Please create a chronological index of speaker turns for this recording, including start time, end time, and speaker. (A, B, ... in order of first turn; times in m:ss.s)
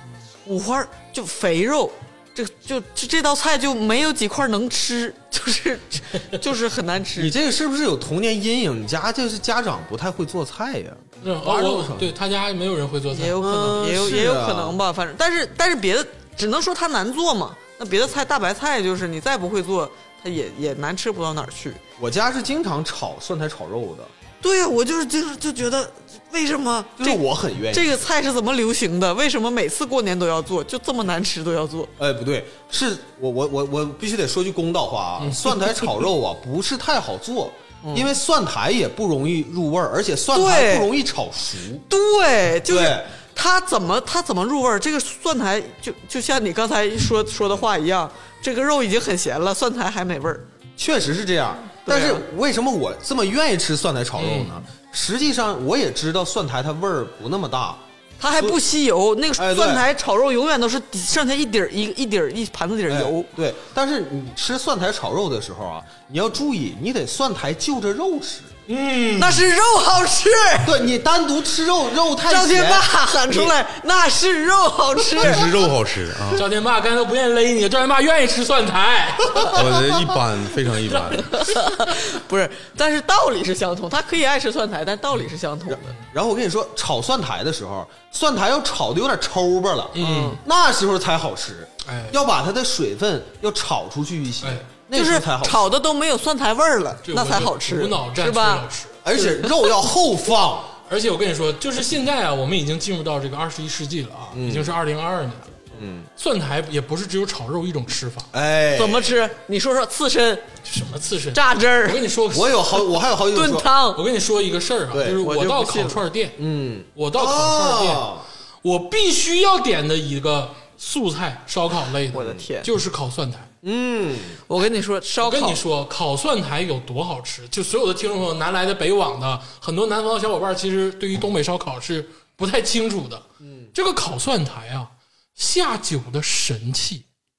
0:00.5-0:07.4 A
0:07.2-0:12.1 B
0:11.2-0:13.4 C
0:13.1-0:21.8 A
0:13.4-0:14.8 B
0:22.0-0:24.1 B
0:24.4-0:31.9 A
0:27.0-0:28.0 B
0:32.0-0:41.8 B
0:35.2-0:36.0 C
0:37.8-0:38.1 A
0:40.3-0:40.9 A
0:41.9-0:50.5 A
0:42.7-0:43.1 B
0:50.8-0:57.8 B
0:51.8-0:52.3 A
0:54.2-0:54.5 C
0:58.2-1:03.3 A
0:59.4-0:59.8 B
1:02.9-1:08.6 B
1:08.7-1:09.5 C
1:09.2-1:10.8 A
1:10.6-1:13.5 B
1:12.3-1:15.5 A
1:15.2-1:16.5 D
1:16.3-1:19.9 C
1:19.4-1:21.5 D
1:21.3-1:25.9 A
1:25.7-1:35.7 B
1:29.9-1:30.4 C
1:30.0-1:30.4 A
1:31.8-1:32.2 C
1:34.9-1:38.6 A
1:37.0-1:39.7 C
1:39.0-1:40.7 B
1:40.9-1:45.6 C
1:44.3-1:44.7 B
1:45.7-1:46.1 B
1:46.2-1:48.3 C
1:48.3-1:49.1 B
1:48.8-1:50.5 A
1:50.6-1:53.0 C
1:51.3-1:52.0 A
1:52.3-1:53.7 B
1:53.3-1:54.0 A
1:53.9-1:56.4 C
1:54.9-1:55.2 B
1:55.2-1:56.0 A
1:56.4-1:58.3 B
1:57.0-1:58.1 C
1:58.6-2:03.5 C
2:02.1-2:02.7 A
2:03.6-2:04.4 B
2:04.5-2:05.6 A
2:05.2-2:17.0 C
2:13.4-2:13.7 B